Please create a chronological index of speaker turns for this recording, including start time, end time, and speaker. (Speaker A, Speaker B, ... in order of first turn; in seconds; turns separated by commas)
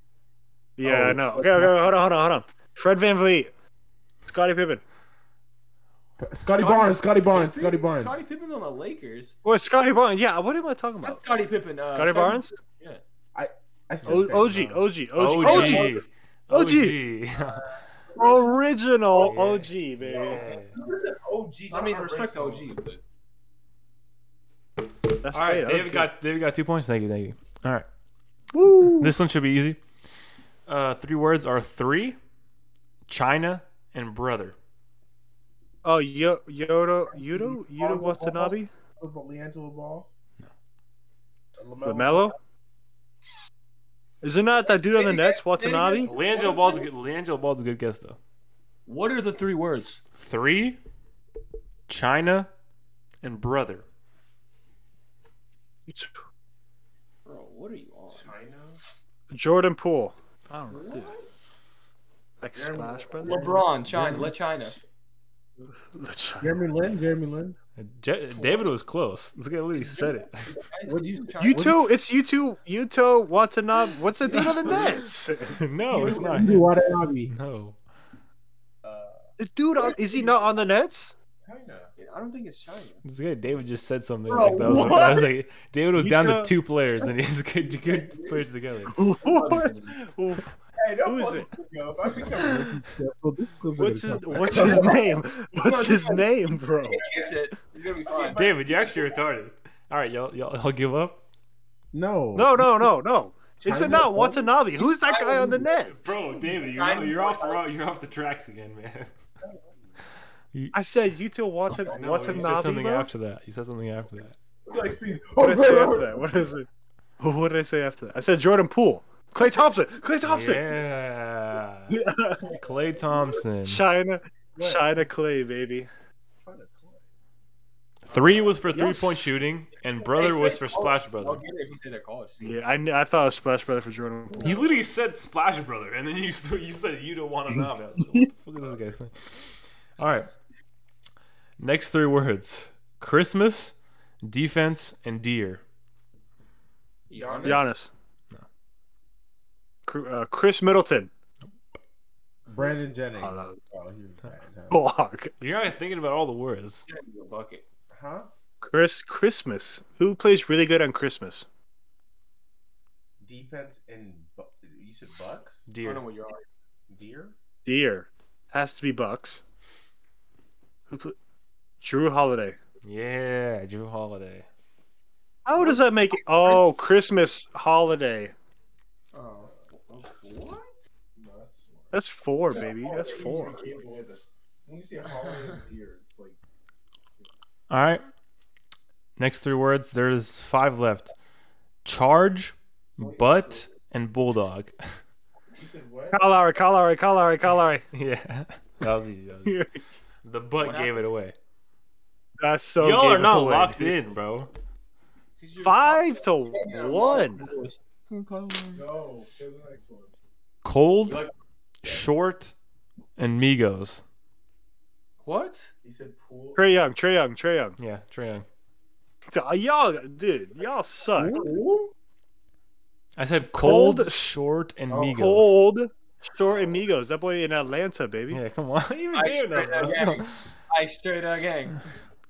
Speaker A: 0.8-3.5, Speaker B: 0.8-1.8, Speaker A: 4.2-4.8, Speaker B: 6.2-8.2, Speaker C: 6.5-9.3, Speaker A: 9.4-11.2, Speaker C: 11.0-13.0, Speaker A: 11.9-12.6, Speaker B: 13.3-14.7, Speaker A: 14.0-17.0, Speaker D: 14.1-17.6, Speaker C: 15.4-15.9, Speaker C: 17.3-17.8, Speaker B: 18.1-18.5, Speaker A: 18.1-20.4, Speaker D: 19.1-20.8, Speaker B: 20.0-22.7, Speaker C: 21.7-23.0, Speaker A: 25.2-26.1, Speaker D: 25.3-27.9, Speaker A: 28.5-29.1, Speaker D: 28.9-29.8, Speaker D: 30.7-32.2, Speaker D: 33.1-34.5, Speaker A: 35.8-38.7, Speaker B: 37.1-40.1, Speaker B: 41.6-42.4, Speaker A: 41.8-42.4, Speaker A: 44.2-46.1, Speaker C: 44.9-46.9, Speaker D: 46.0-48.2, Speaker C: 48.9-50.0, Speaker D: 50.1-50.8, Speaker D: 51.9-52.5, Speaker D: 53.2-53.8, Speaker A: 55.9-56.2, Speaker C: 57.2-58.3, Speaker B: 58.1-58.8, Speaker A: 59.3-61.1, Speaker C: 60.7-61.3, Speaker A: 62.4-63.4, Speaker B: 62.5-64.8, Speaker C: 63.2-64.8, Speaker A: 65.9-66.5, Speaker B: 66.4-67.5, Speaker D: 67.8-70.5, Speaker C: 68.3-68.7, Speaker C: 69.7-71.8, Speaker B: 70.8-71.8, Speaker A: 71.4-75.6, Speaker B: 74.3-75.0, Speaker D: 75.5-76.7, Speaker C: 75.9-76.6, Speaker B: 75.9-77.3, Speaker D: 77.3-77.8, Speaker B: 78.8-79.2, Speaker A: 79.4-81.1, Speaker B: 81.4-81.9, Speaker C: 82.0-83.0, Speaker D: 83.0-89.0, Speaker C: 84.3-85.3, Speaker A: 86.0-86.5, Speaker C: 87.9-88.3, Speaker A: 88.9-90.5, Speaker C: 89.2-89.8, Speaker B: 89.3-89.8, Speaker B: 90.8-95.2, Speaker A: 91.0-91.5, Speaker A: 93.8-97.0, Speaker C: 94.5-95.0, Speaker C: 95.5-98.5, Speaker B: 98.0-99.0, Speaker D: 98.3-101.2, Speaker B: 101.9-102.9, Speaker A: 102.3-106.1, Speaker B: 103.6-104.7, Speaker C: 105.0-105.7, Speaker D: 105.9-109.1, Speaker C: 106.5-107.6, Speaker A: 110.7-113.1, Speaker D: 111.8-114.4, Speaker B: 114.7-116.5, Speaker A: 115.4-116.7, Speaker A: 117.2-120.8, Speaker D: 120.2-123.8, Speaker A: 121.9-122.5, Speaker A: 123.7-125.9, Speaker B: 124.5-125.0, Speaker B: 126.4-127.0, Speaker D: 128.1-131.4, Speaker B: 128.3-129.2, Speaker C: 130.1-132.5, Speaker A: 132.4-134.6, Speaker D: 134.4-140.3, Speaker D: 141.6-145.6, Speaker C: 147.1-147.7, Speaker B: 147.1-147.7, Speaker A: 147.4-147.9, Speaker A: 149.9-151.1, Speaker B: 152.5-154.8, Speaker A: 153.2-153.6, Speaker A: 154.7-155.3, Speaker D: 155.4-156.8, Speaker C: 156.9-157.6, Speaker B: 157.9-158.3, Speaker A: 158.6-161.4, Speaker B: 163.2-165.7, Speaker D: 165.7-166.0, Speaker C: 165.8-166.4, Speaker B: 166.9-167.3, Speaker A: 167.7-169.4, Speaker A: 170.9-171.2, Speaker A: 171.8-172.6, Speaker D: 172.8-174.5, Speaker A: 175.4-178.3, Speaker C: 179.1-180.7, Speaker B: 181.2-181.9, Speaker A: 181.9-183.6, Speaker B: 182.5-186.4, Speaker D: 187.7-188.0, Speaker D: 189.2-191.1, Speaker D: 191.8-195.0, Speaker B: 193.0-193.5, Speaker B: 195.5-196.2, Speaker A: 196.1-197.8, Speaker D: 197.9-199.6, Speaker A: 199.4-199.8, Speaker D: 200.2-201.3, Speaker C: 200.6-201.0, Speaker A: 202.4-203.9, Speaker D: 202.8-204.5, Speaker C: 205.4-208.8, Speaker A: 205.6-207.5, Speaker B: 208.7-210.1, Speaker D: 210.6-211.2, Speaker D: 211.8-212.5, Speaker D: 213.2-214.0, Speaker C: 215.2-215.7, Speaker B: 215.8-216.6, Speaker A: 216.6-217.8, Speaker D: 217.8-218.4, Speaker A: 219.3-221.4, Speaker C: 221.2-221.9, Speaker B: 221.2-221.5, Speaker D: 223.2-225.6, Speaker A: 223.5-224.2, Speaker A: 225.0-228.4, Speaker D: 228.3-230.4, Speaker C: 229.1-231.8